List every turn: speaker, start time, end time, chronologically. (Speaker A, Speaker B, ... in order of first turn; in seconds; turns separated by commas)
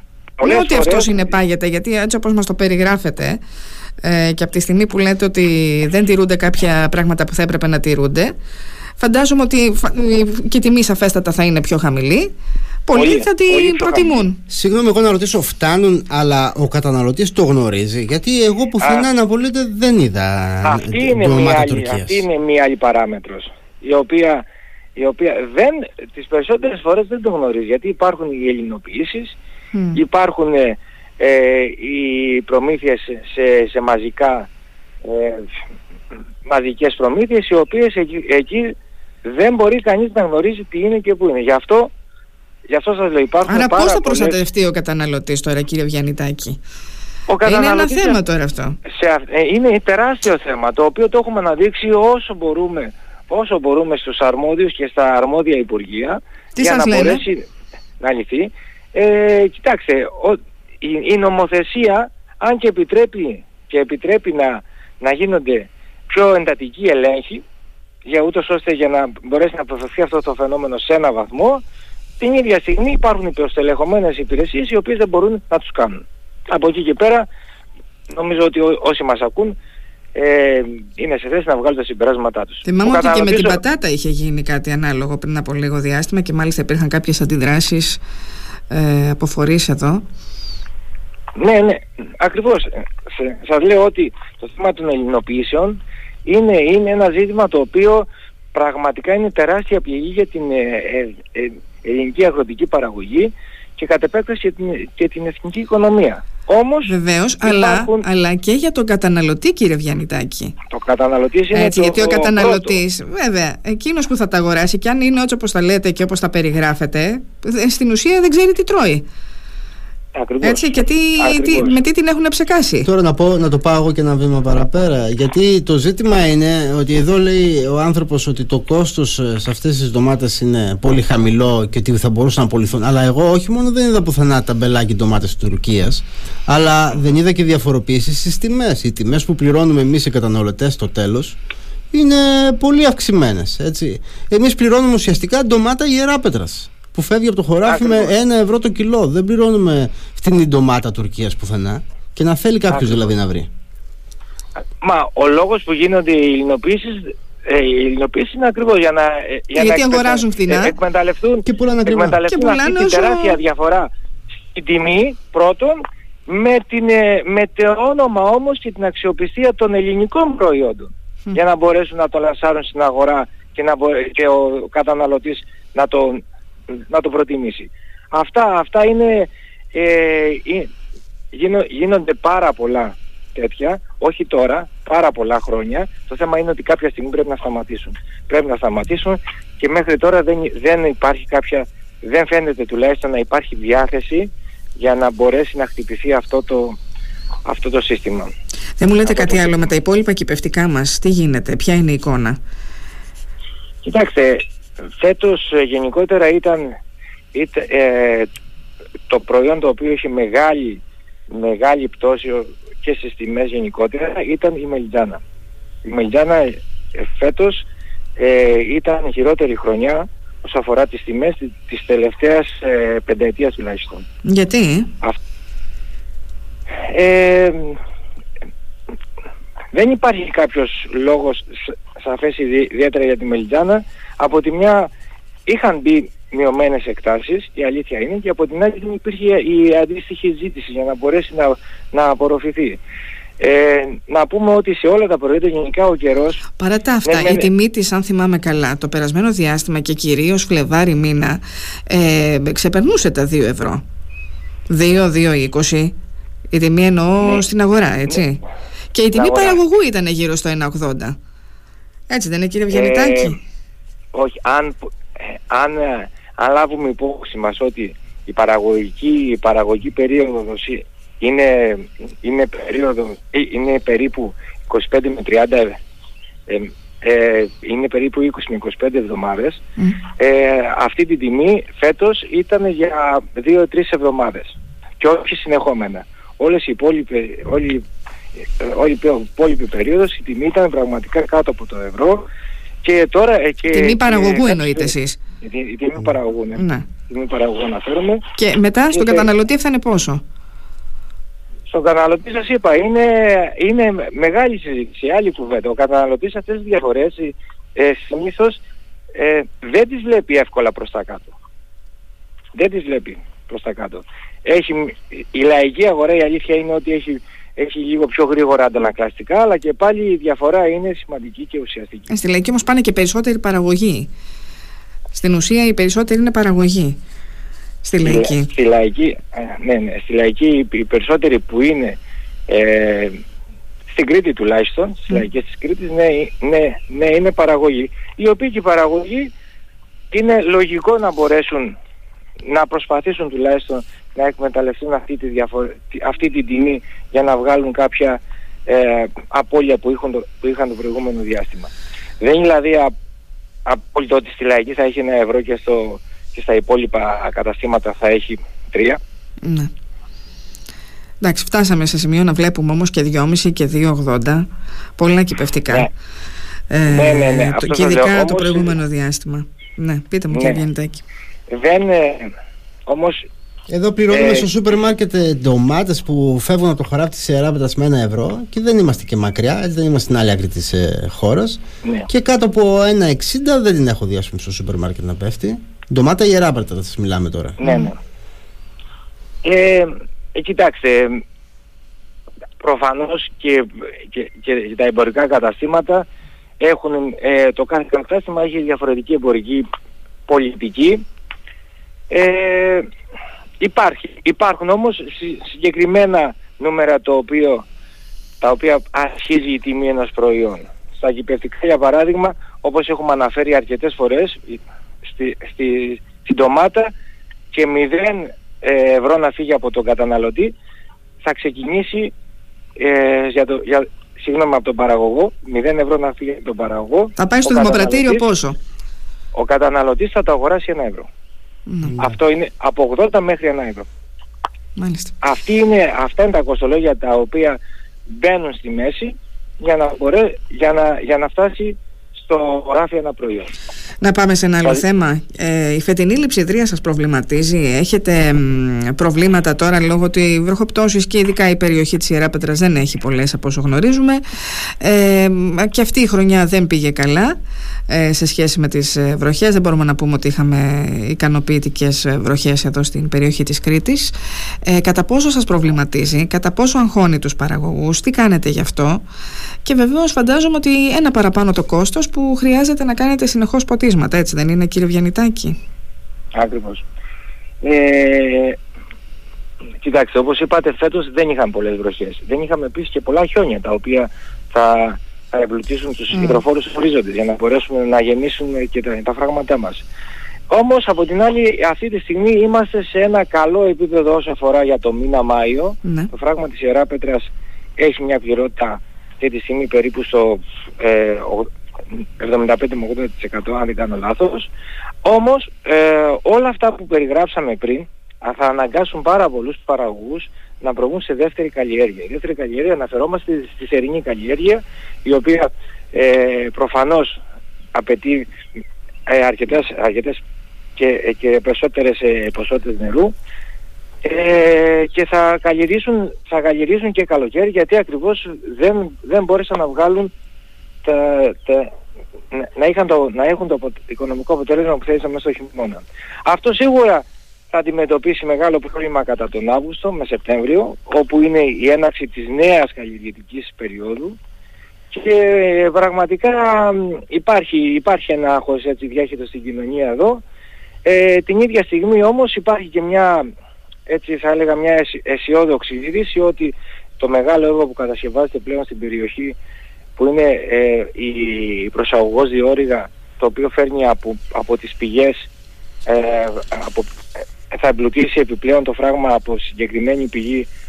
Speaker A: 0.4-1.3, Speaker B: 0.4-3.4, Speaker B: 4.0-8.3, Speaker B: 9.0-12.3, Speaker B: 12.8-14.4, Speaker A: 12.9-14.2, Speaker C: 14.5-22.2, Speaker A: 20.6-24.4, Speaker A: 24.9-29.4, Speaker B: 29.7-30.0, Speaker A: 29.9-34.5, Speaker A: 35.0-35.5, Speaker A: 36.5-38.7, Speaker A: 39.2-41.9, Speaker A: 42.7-44.4, Speaker B: 43.5-46.6, Speaker A: 47.3-48.2, Speaker B: 47.4-48.8, Speaker A: 48.8-57.4, Speaker B: 56.6-57.2, Speaker A: 58.0-67.4, Speaker A: 68.0-71.6, Speaker A: 72.2-77.3, Speaker A: 78.1-79.5, Speaker A: 80.1-83.6, Speaker B: 82.7-88.0, Speaker B: 88.7-90.0, Speaker A: 91.4-108.0, Speaker B: 106.9-110.5, Speaker A: 110.7-112.8, Speaker B: 111.5-119.0, Speaker A: 120.1-120.7, Speaker B: 120.4-122.9, Speaker A: 121.2-121.8, Speaker C: 122.8-141.4, Speaker C: 141.9-153.5, Speaker A: 147.7-148.1, Speaker A: 152.7-153.0, Speaker A: 154.8-163.9, Speaker B: 159.6-160.7, Speaker C: 161.4-162.2, Speaker B: 162.3-163.4, Speaker A: 164.5-176.2, Speaker A: 176.9-180.7, Speaker A: 181.3-196.8, Speaker A: 197.4-198.3, Speaker B: 198.8-202.4, Speaker A: 199.0-199.7, Speaker A: 203.8-204.4, Speaker A: 205.0-206.7, Speaker A: 207.3-208.3, Speaker A: 209.1-215.2, Speaker A: 215.8-217.7, Speaker A: 218.2-224.0, Speaker B: 224.2-224.9, Speaker A: 226.8-227.8, Speaker A: 229.7-234.9, Speaker A: 235.5-242.8, Speaker A: 243.4-246.4, Speaker B: 246.6-253.8, Speaker A: 247.0-247.5, Speaker B: 254.7-255.9, Speaker B: 256.5-258.4, Speaker B: 258.9-261.2, Speaker A: 259.1-259.6, Speaker B: 262.1-263.4, Speaker A: 262.7-263.4, Speaker A: 264.1-275.8, Speaker A: 276.5-279.6, Speaker A: 280.2-287.8, Speaker A: 288.6-292.2, Speaker A: 292.8-298.2, Speaker B: 293.7-295.2, Speaker B: 296.5-296.9, Speaker B: 298.4-300.2, Speaker A: 298.9-299.3, Speaker A: 301.7-308.6, Speaker A: 309.1-311.3, Speaker A: 312.5-322.1, Speaker B: 322.1-324.1, Speaker B: 325.1-327.0, Speaker B: 327.8-328.5, Speaker A: 328.0-333.2, Speaker A: 333.9-339.3, Speaker A: 340.1-341.8, Speaker A: 342.4-352.9, Speaker A: 353.6-359.0, Speaker B: 359.4-359.7, Speaker B: 361.2-364.4, Speaker B: 365.0-365.9, Speaker B: 366.7-371.0, Speaker A: 366.9-368.8, Speaker A: 370.3-370.6, Speaker A: 371.5-372.3, Speaker A: 372.9-373.2, Speaker C: 373.7-387.6, Speaker A: 374.1-374.5, Speaker A: 387.6-388.0, Speaker B: 387.6-387.9, Speaker A: 389.4-391.2, Speaker A: 392.6-396.1, Speaker A: 396.6-399.6, Speaker A: 400.3-401.0, Speaker A: 402.1-402.9, Speaker A: 403.6-407.6, Speaker A: 408.4-416.9, Speaker A: 417.5-420.5, Speaker A: 421.2-422.1, Speaker A: 422.8-428.2, Speaker B: 427.2-428.6, Speaker A: 429.3-431.1, Speaker B: 431.7-431.9, Speaker C: 431.9-432.1, Speaker A: 432.0-433.9, Speaker B: 434.8-435.1, Speaker A: 435.2-443.5, Speaker B: 444.0-457.4, Speaker B: 457.9-464.1, Speaker B: 464.6-469.0, Speaker B: 469.6-475.6, Speaker A: 476.4-476.8, Speaker A: 477.6-478.6, Speaker A: 479.8-489.8, Speaker B: 486.1-486.4, Speaker A: 490.5-504.5, Speaker B: 495.8-496.1, Speaker A: 505.0-517.2, Speaker A: 517.7-518.3, Speaker A: 519.1-520.2, Speaker A: 520.8-523.1, Speaker A: 524.0-530.1, Speaker A: 530.8-531.7, Speaker A: 532.3-544.2, Speaker A: 544.9-550.2, Speaker A: 550.9-553.2, Speaker A: 553.9-559.4, Speaker A: 560.0-565.3, Speaker A: 565.9-566.9, Speaker A: 567.5-570.5